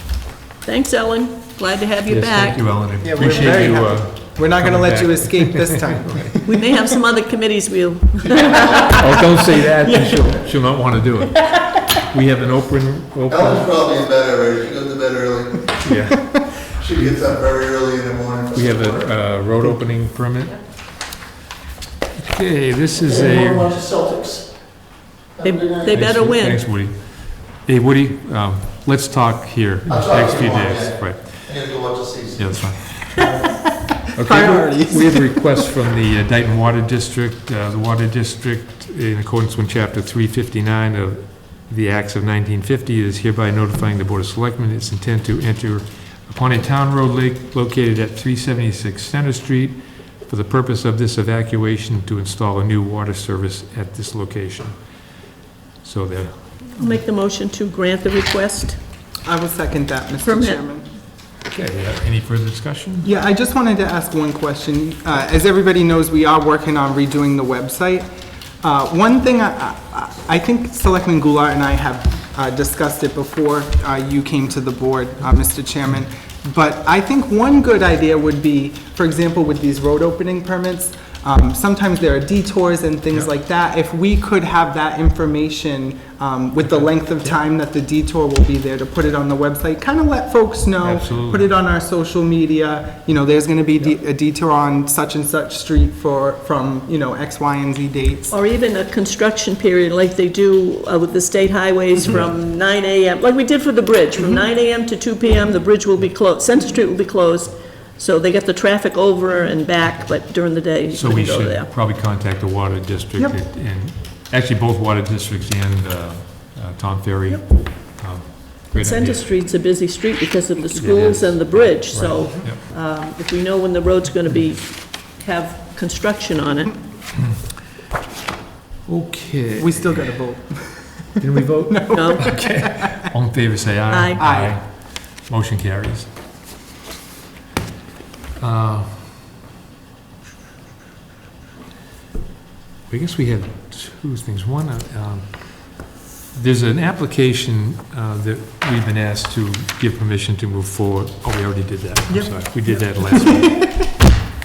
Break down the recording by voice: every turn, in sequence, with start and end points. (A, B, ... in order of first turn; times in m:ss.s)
0:00.6-0:02.8 A
0:02.1-0:06.4 B
0:03.0-0:06.7 C
0:06.4-0:09.0 A
0:08.8-0:13.7 B
0:13.3-0:15.8 D
0:15.8-0:16.6 B
0:16.7-0:19.2 D
0:18.5-0:20.6 B
0:22.2-0:23.7 B
0:23.0-0:26.0 D
0:25.4-0:26.6 A
0:25.8-0:31.8 B
0:29.9-0:32.6 D
0:32.3-0:33.2 B
0:34.1-0:55.2 B
0:34.2-0:35.6 C
0:55.8-0:56.8 B
0:56.7-0:58.8 A
0:59.2-1:00.8 C
1:00.2-1:00.6 A
1:01.4-1:03.1 B
1:03.0-1:08.1 C
1:08.6-1:38.3 C
1:30.8-1:31.5 B
1:38.3-1:51.7 A
1:50.9-1:59.3 B
1:57.3-1:58.0 A
1:58.7-2:06.8 A
2:00.7-2:02.6 B
2:08.8-2:10.0 B
2:09.6-2:12.9 C
2:11.2-2:16.1 B
2:11.9-2:12.3 A
2:13.9-2:14.2 A
2:14.2-2:14.5 C
2:18.4-2:19.2 B
2:22.9-2:34.0 B
2:32.1-2:33.6 C